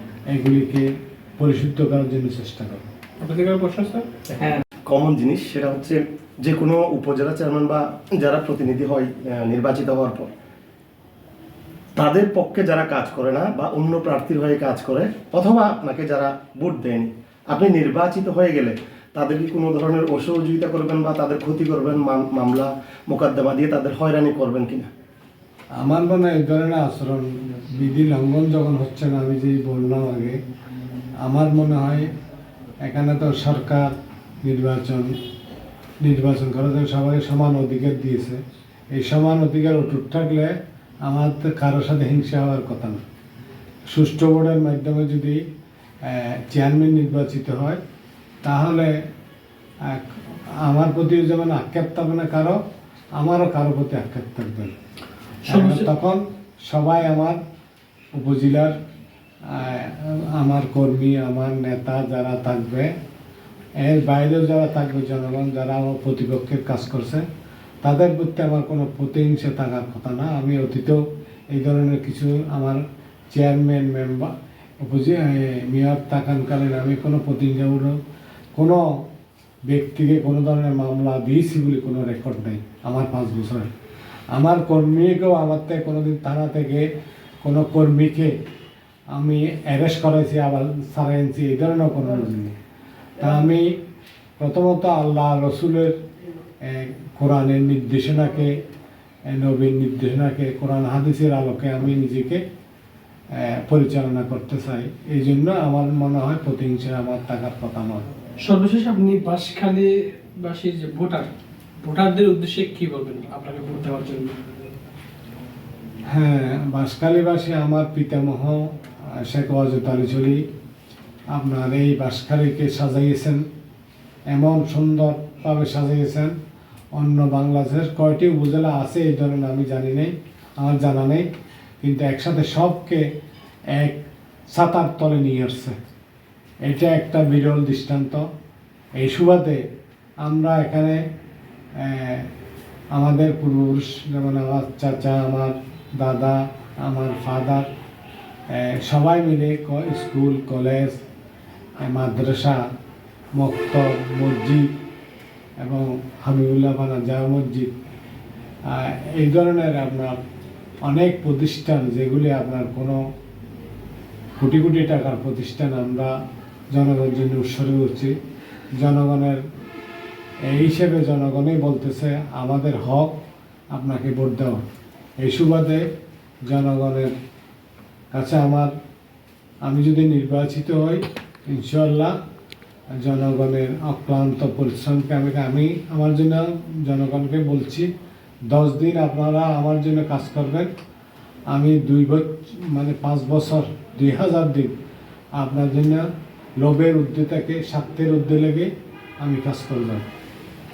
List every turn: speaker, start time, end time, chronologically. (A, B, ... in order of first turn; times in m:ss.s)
0:00.3-0:02.8 A
0:03.2-0:04.6 B
0:04.9-0:10.3 C
0:12.0-0:24.9 C
0:25.8-0:30.4 A
0:31.2-0:32.1 A
0:32.8-0:33.9 A
0:34.4-0:35.1 A
0:36.0-0:38.4 A
0:38.9-0:43.0 A
0:43.9-0:45.4 A
0:46.0-0:47.8 A
0:48.4-0:49.0 A
0:49.8-0:52.6 A
0:53.2-0:54.8 A
0:55.4-0:55.9 B
0:55.5-0:57.4 A
0:58.1-0:58.7 A
0:59.4-1:02.9 A
1:03.8-1:07.3 A
1:07.8-1:18.0 A
1:18.6-1:18.9 A
1:19.7-1:23.7 A
1:24.3-1:26.9 A
1:27.4-1:28.3 A
1:29.1-1:32.6 A
1:33.2-1:33.8 A
1:34.4-1:36.0 A
1:36.6-1:38.5 A
1:39.3-1:42.4 A
1:43.4-1:48.1 A
1:48.4-1:51.3 B
1:51.8-1:54.4 B
1:56.1-2:00.4 A
2:01.3-2:03.4 A
2:04.3-2:06.3 A
2:07.0-2:11.3 A
2:11.8-2:13.1 A
2:13.7-2:14.0 A
2:14.5-2:15.8 A
2:16.6-2:18.3 A
2:19.0-2:19.6 A
2:20.2-2:21.0 A
2:21.8-2:22.3 A
2:22.9-2:27.7 A
2:28.5-2:31.0 A
2:31.8-2:32.6 A
2:33.4-2:34.7 A
2:35.6-2:37.7 A
2:38.7-2:40.2 A
2:40.9-2:43.0 A
2:44.4-2:46.1 A
2:46.7-2:48.1 A
2:48.8-2:49.4 A
2:50.5-2:53.1 A
2:53.7-2:54.6 A
2:55.2-2:55.8 A
2:56.5-2:57.1 A
2:58.1-2:58.7 A
2:59.6-3:02.2 A
3:03.0-3:07.9 A
3:08.5-3:10.7 A
3:11.5-3:14.7 A
3:15.4-3:16.1 A
3:16.6-3:18.7 A
3:19.2-3:20.1 A